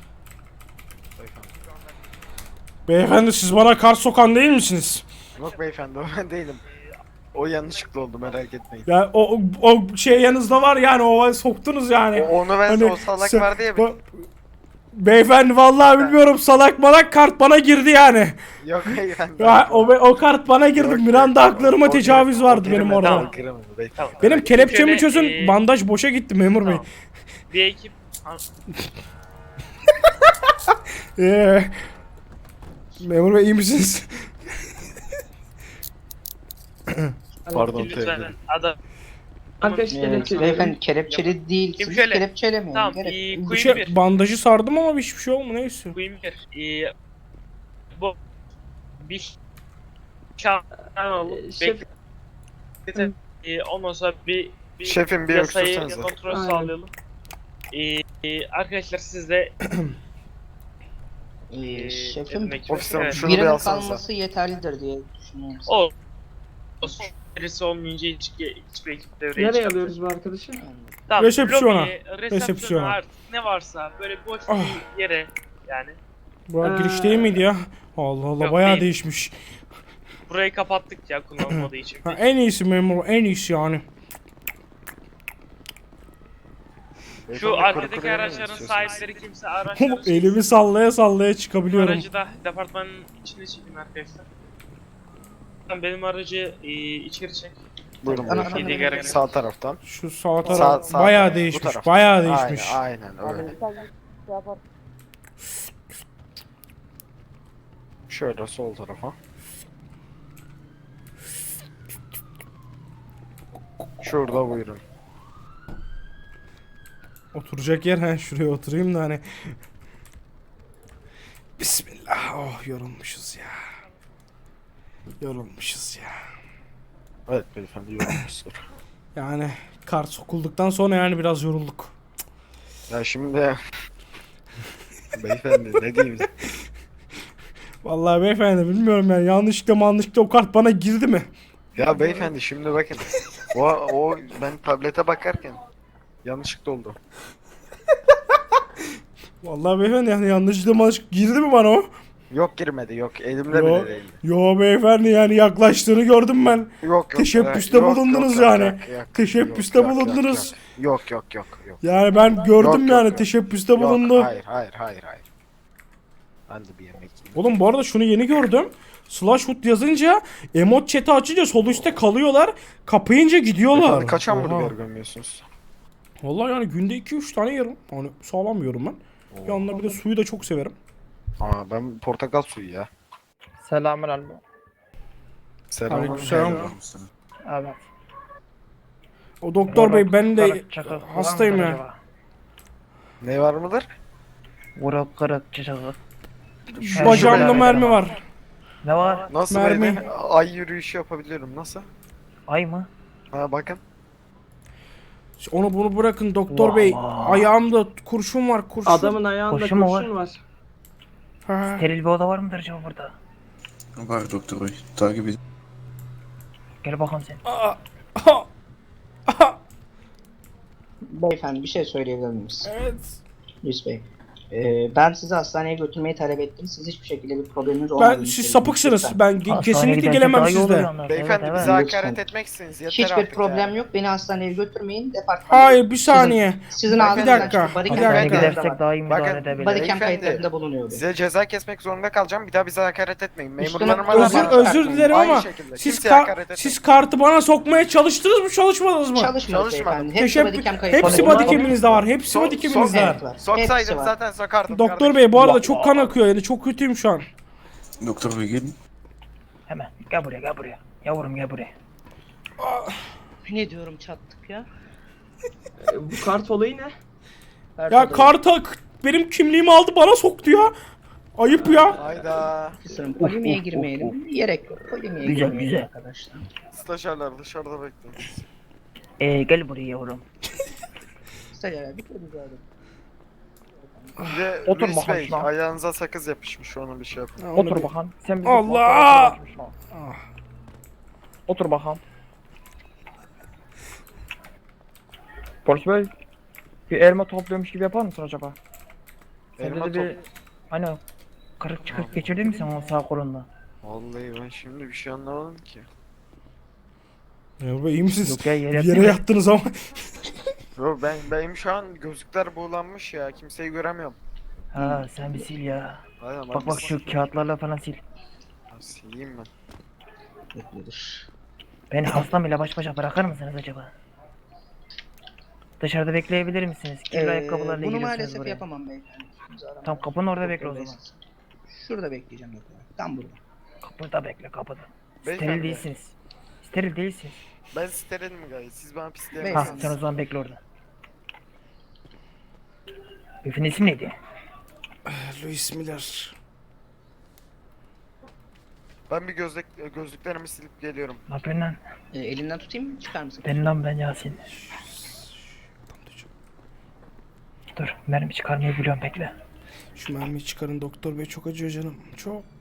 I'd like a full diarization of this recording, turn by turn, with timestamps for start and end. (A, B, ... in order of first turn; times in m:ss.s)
0:01.2-0:01.5 A
0:02.9-0:05.0 B
0:05.4-0:06.6 A
0:07.3-0:08.9 A
0:08.9-0:14.0 B
0:12.1-0:13.9 A
0:14.9-0:18.4 B
0:15.8-0:16.2 A
0:18.6-0:20.0 A
0:19.4-0:23.3 B
0:20.8-0:24.5 A
0:22.6-0:23.5 C
0:24.0-0:25.6 C
0:24.2-0:26.8 B
0:27.5-0:28.4 C
0:31.2-0:31.8 B
0:33.0-0:34.3 B
0:36.9-0:37.1 B
0:37.5-0:38.0 D
0:37.5-0:38.3 E
0:37.6-0:38.8 C
0:39.6-0:40.8 D
0:39.6-0:44.0 C
0:39.9-0:43.4 F
0:43.4-0:45.9 B
0:45.9-0:46.9 C
0:49.0-0:49.3 C
0:50.4-0:51.8 C
0:51.1-0:51.9 D
0:52.9-0:56.9 C
0:54.8-0:56.2 A
0:56.3-0:56.8 D
0:57.7-0:59.5 C
1:01.5-1:05.8 F
1:01.6-1:03.4 C
1:02.7-1:04.0 A
1:05.7-1:05.9 C
1:06.8-1:10.0 C
1:09.4-1:10.6 D
1:10.6-1:11.0 F
1:11.1-1:16.0 C
1:11.2-1:13.0 B
1:14.5-1:14.8 B
1:16.5-1:19.3 B
1:16.6-1:17.4 D
1:18.4-1:18.9 C
1:20.3-1:22.2 C
1:21.5-1:23.8 B
1:27.3-1:29.2 A
1:27.3-1:30.4 C
1:29.8-1:32.1 B
1:31.7-1:34.3 C
1:35.7-1:37.6 C
1:38.0-1:39.8 A
1:38.1-1:39.4 F
1:38.3-1:39.3 C
1:39.8-1:42.8 B
1:40.5-1:43.6 A
1:44.3-1:44.6 D
1:48.1-1:49.2 A
1:54.0-1:54.8 A
1:57.3-1:59.6 B
2:01.6-2:03.7 B
2:05.2-2:06.2 B
2:07.3-2:08.6 A
2:09.2-2:12.0 B
2:12.9-2:13.6 A
2:15.2-2:16.3 A
2:17.8-2:21.3 B
2:21.8-2:25.6 A
2:26.2-2:27.0 A
2:29.4-2:31.9 B
2:32.3-2:34.2 A
2:33.5-2:40.6 B
2:36.8-2:42.0 A
2:41.8-2:44.3 B
2:42.6-2:45.2 A
2:46.5-2:47.5 A
2:47.4-2:54.8 B
2:53.7-2:55.5 A
2:56.2-3:00.8 B
2:59.3-2:59.7 A
3:01.4-3:02.9 A
3:03.6-3:04.4 G
3:05.7-3:06.7 A
3:05.9-3:06.7 B
3:06.0-3:07.1 E
3:07.4-3:07.8 G
3:09.4-3:11.8 B
3:09.7-3:12.0 G
3:13.2-3:13.8 A
3:14.8-3:16.0 G
3:16.7-3:18.2 B
3:16.9-3:18.0 G
3:16.9-3:17.8 A
3:18.8-3:19.3 G
3:19.3-3:21.9 A
3:19.5-3:20.0 B
3:22.5-3:22.9 G
3:23.3-3:23.8 A
3:25.4-3:29.2 B
3:26.5-3:27.5 G
3:28.8-3:30.4 D
3:29.5-3:30.1 G
3:31.5-3:31.9 B
3:31.7-3:33.2 G
3:34.0-3:35.4 E
3:36.8-3:37.4 G
3:37.4-3:38.5 B
3:39.3-3:39.6 B
3:41.1-3:42.7 F
3:42.6-3:43.2 B
3:43.6-3:49.2 F
3:48.0-3:50.9 B
3:49.5-3:51.8 G
3:51.0-3:53.8 A
3:51.5-3:52.2 F
3:52.9-3:59.0 F
3:55.5-3:58.6 B
3:56.9-4:06.8 A
3:57.9-3:59.9 G
3:59.5-4:01.0 F
4:03.6-4:05.3 F
4:04.0-4:09.3 B
4:09.2-4:12.0 F
4:09.5-4:10.2 A
4:10.2-4:13.2 B
4:11.0-4:11.7 G
4:11.0-4:11.6 D
4:12.2-4:15.8 A
4:12.9-4:14.2 F
4:14.7-4:17.3 B
4:15.4-4:16.1 G
4:18.0-4:18.8 E
4:19.7-4:21.7 G
4:22.6-4:23.0 B
4:23.5-4:24.7 F
4:25.8-4:26.9 D
4:27.8-4:28.4 F
4:27.9-4:30.7 B
4:31.4-4:32.0 B
4:32.0-4:32.8 A
4:32.8-4:36.5 F
4:33.2-4:34.1 G
4:35.2-4:35.9 G
4:36.7-4:38.3 A
4:39.2-4:40.3 G
4:41.5-4:42.6 F
4:44.2-4:47.5 A
4:44.7-4:45.5 G
4:47.4-4:47.9 B
4:47.5-4:49.7 G
4:48.4-4:49.4 B
4:49.9-4:50.2 B
4:51.5-4:52.0 G
4:55.6-4:56.1 G
4:56.9-4:58.6 G
4:59.6-5:00.1 A
4:59.6-5:00.2 G
5:00.7-5:01.0 G
5:01.6-5:03.5 G
5:01.9-5:02.6 A
5:03.8-5:05.8 A
5:07.6-5:10.1 B
5:08.2-5:09.2 G
5:10.8-5:14.2 A
5:14.7-5:16.0 G
5:14.8-5:15.5 F
5:16.2-5:17.3 A
5:16.5-5:18.0 G
5:18.7-5:19.5 A
5:20.6-5:21.3 F
5:21.9-5:23.9 G
5:25.8-5:28.6 G
5:27.1-5:33.4 F
5:29.8-5:31.0 G
5:33.8-5:37.4 G
5:35.2-5:35.9 A
5:37.7-5:39.9 A
5:39.4-5:40.0 F
5:39.5-5:40.6 G
5:43.4-5:44.2 G
5:45.1-5:46.3 B
5:49.1-5:51.2 A
5:51.3-5:51.8 G
5:52.1-5:53.8 F
5:53.4-5:54.5 G
5:54.5-5:56.3 B
5:57.8-5:59.3 G
6:00.0-6:02.5 B